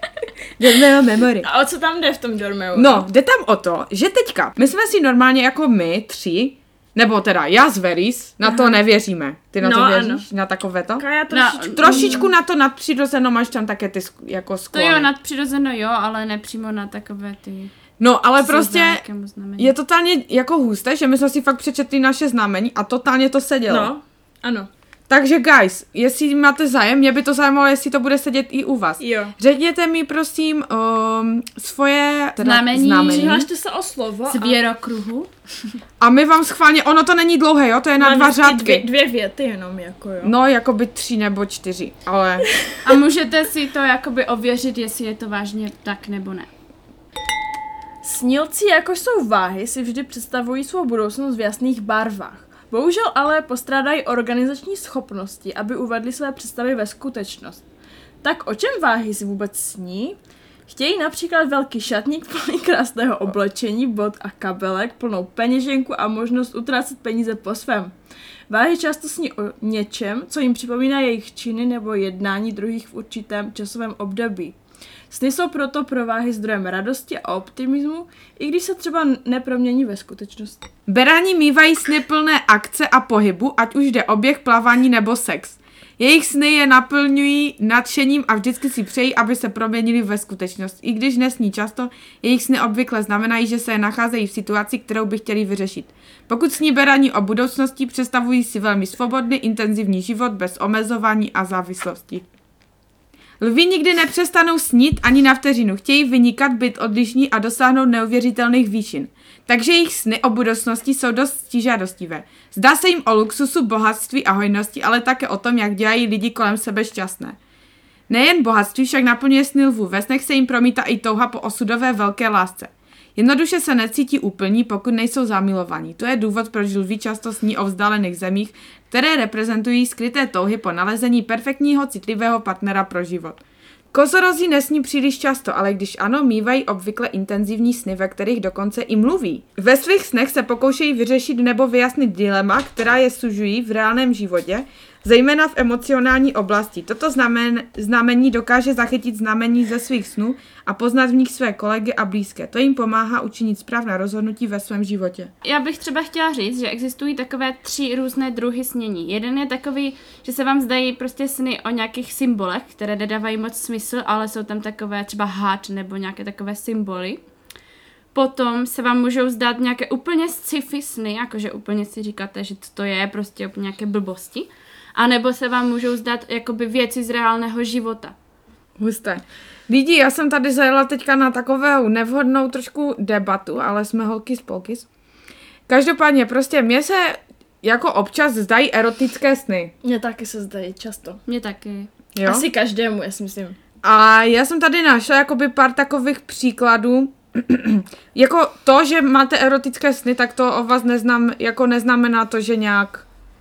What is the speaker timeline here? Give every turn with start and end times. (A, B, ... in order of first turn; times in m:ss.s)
0:00.6-0:01.5 A
0:01.4-0:03.0 B
0:02.7-0:11.0 A
0:09.6-0:10.2 B
0:11.0-0:12.3 B
0:11.3-0:12.3 C
0:11.8-0:15.1 A
0:14.7-0:17.7 C
0:18.0-0:19.0 A
0:18.4-0:19.7 C
0:19.6-0:23.9 A
0:23.7-0:24.7 B
0:25.1-0:33.4 A
0:29.0-0:29.3 B
0:32.4-0:33.5 C
0:33.0-0:34.6 B
0:34.3-0:35.3 C
0:36.0-0:38.8 A
0:38.0-0:40.3 B
0:40.2-0:42.5 A
0:42.8-0:46.5 C
0:48.0-0:57.6 B
0:58.2-1:07.9 B
1:08.5-1:14.6 B
1:15.1-1:20.6 B
1:20.9-1:42.2 A
1:43.4-1:57.4 A
1:58.1-2:13.4 A
2:13.9-2:35.3 A
2:35.4-2:47.2 C
2:48.1-2:58.1 C
2:58.8-3:04.8 A
3:05.7-3:09.7 A
3:09.8-3:11.2 B
3:11.3-3:11.9 C
3:12.1-3:12.4 A
3:12.2-3:13.6 B
3:13.8-3:23.0 A